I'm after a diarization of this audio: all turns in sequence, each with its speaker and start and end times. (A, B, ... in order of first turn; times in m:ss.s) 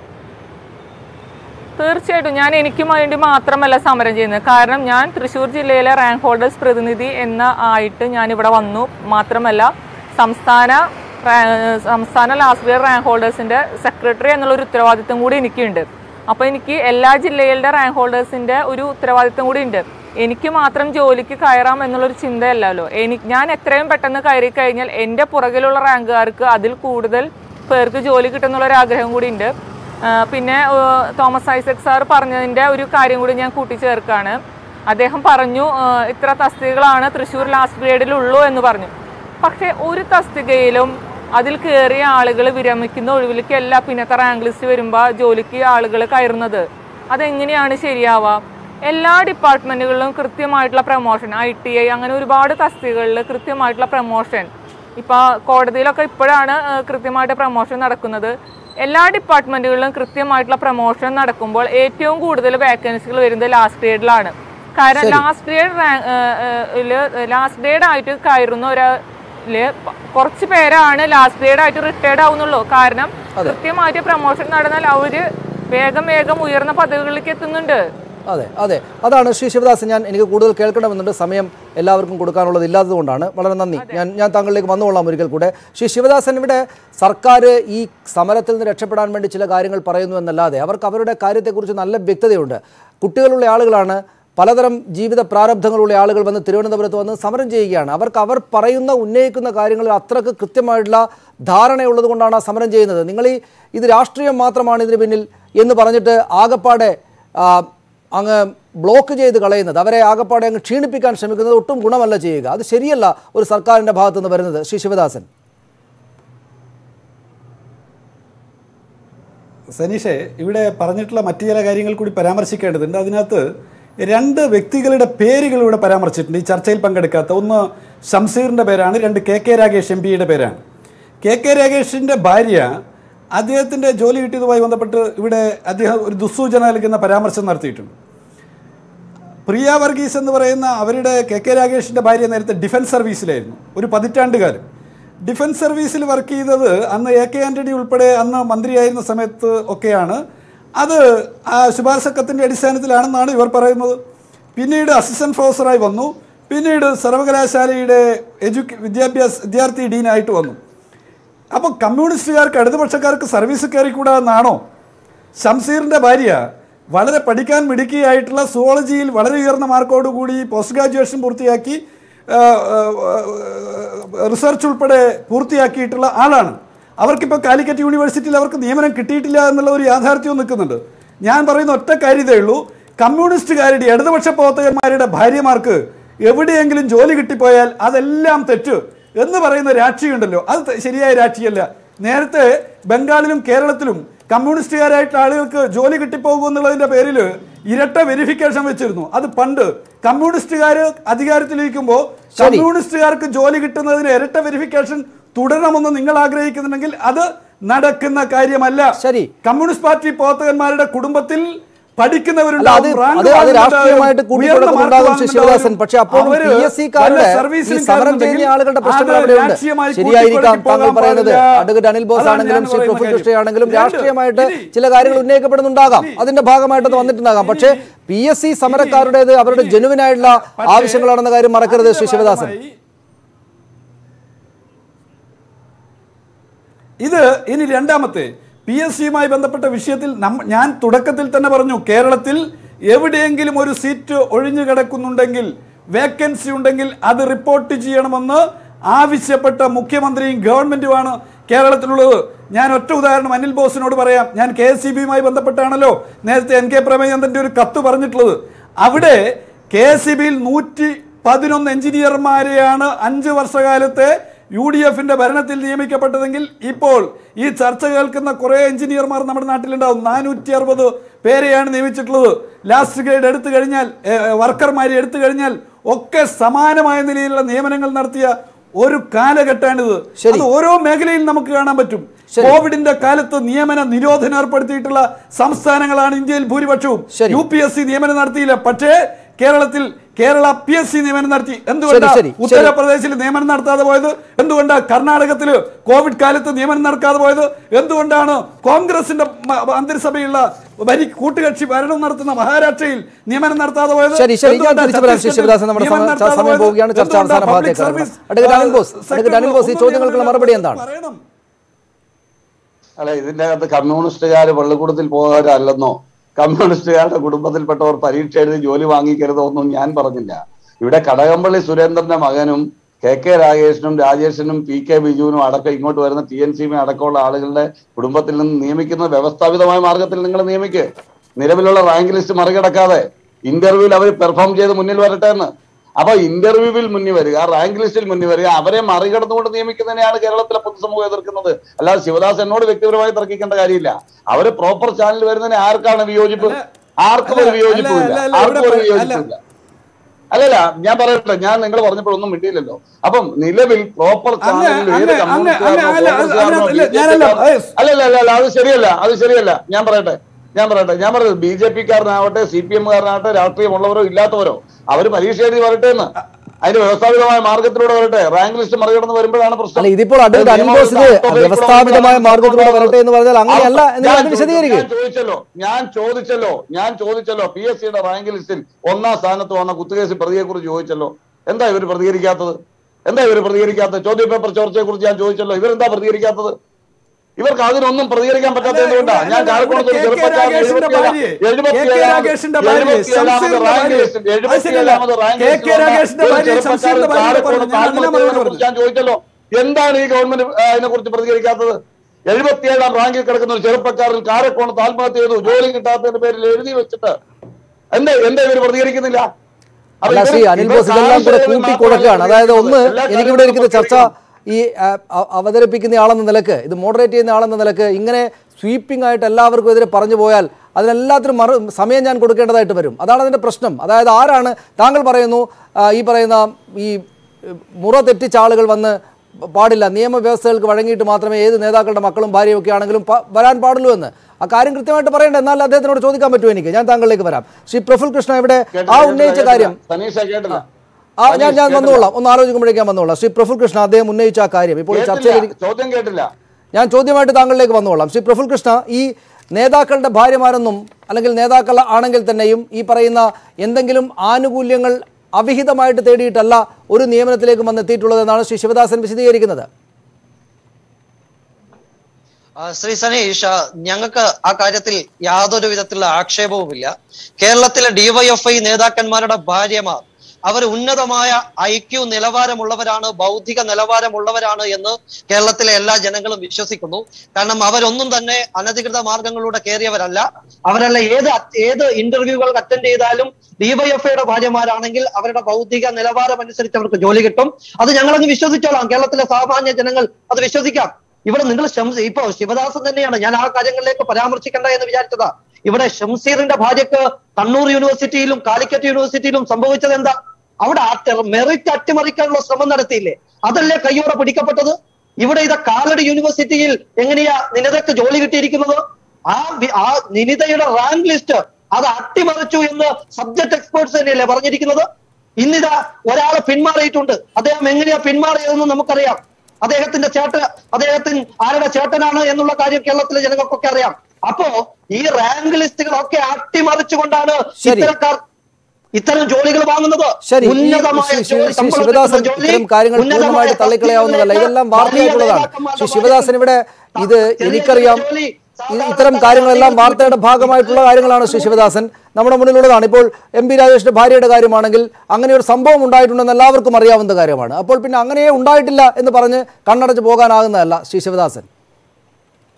0:01.8-0:29.5 A
0:30.0-0:38.9 A
0:39.4-1:09.0 A
1:05.0-1:05.2 B
1:09.5-1:17.8 A
1:18.3-1:55.3 B
1:23.8-1:24.0 A
1:59.8-2:03.4 C
2:04.0-2:10.6 C
2:11.2-2:12.8 C
2:13.4-2:17.9 C
2:19.5-2:24.6 C
2:25.2-2:30.2 C
2:30.8-2:34.0 C
2:34.6-2:40.6 C
2:41.5-2:44.6 C
2:45.4-3:45.2 C
3:22.4-3:22.7 B
3:29.0-3:29.3 B
3:32.6-3:52.5 B
3:45.9-3:46.2 C
3:46.8-3:47.8 C
3:48.7-3:51.1 C
3:51.6-3:52.8 C
3:57.0-5:11.2 C
4:40.2-4:40.5 B
4:42.3-4:42.6 B
4:47.1-4:47.4 B
4:51.9-4:52.7 B
5:04.1-5:10.8 B
5:13.0-5:30.9 D
5:31.4-5:49.4 D
5:46.4-5:46.6 C
5:47.3-5:49.2 C
5:50.3-6:06.1 D
5:54.4-5:57.7 C
6:06.6-6:12.9 D
6:09.8-6:14.9 B
6:13.5-6:22.6 D
6:23.1-6:26.5 D
6:27.4-6:41.8 D
6:28.6-6:38.6 C
6:42.3-6:47.2 D
6:47.9-6:49.3 D
6:50.0-6:54.1 D
6:50.1-7:19.8 B
7:18.7-7:20.6 D
7:21.2-7:25.5 B
7:21.3-7:22.1 D
7:24.9-7:26.3 D
7:26.7-7:39.7 B
7:42.6-8:34.8 E
8:35.4-8:48.2 E
8:47.6-8:47.9 B
8:48.9-8:56.3 E
8:50.2-8:58.1 B
8:57.0-9:01.6 E
8:58.7-9:11.5 B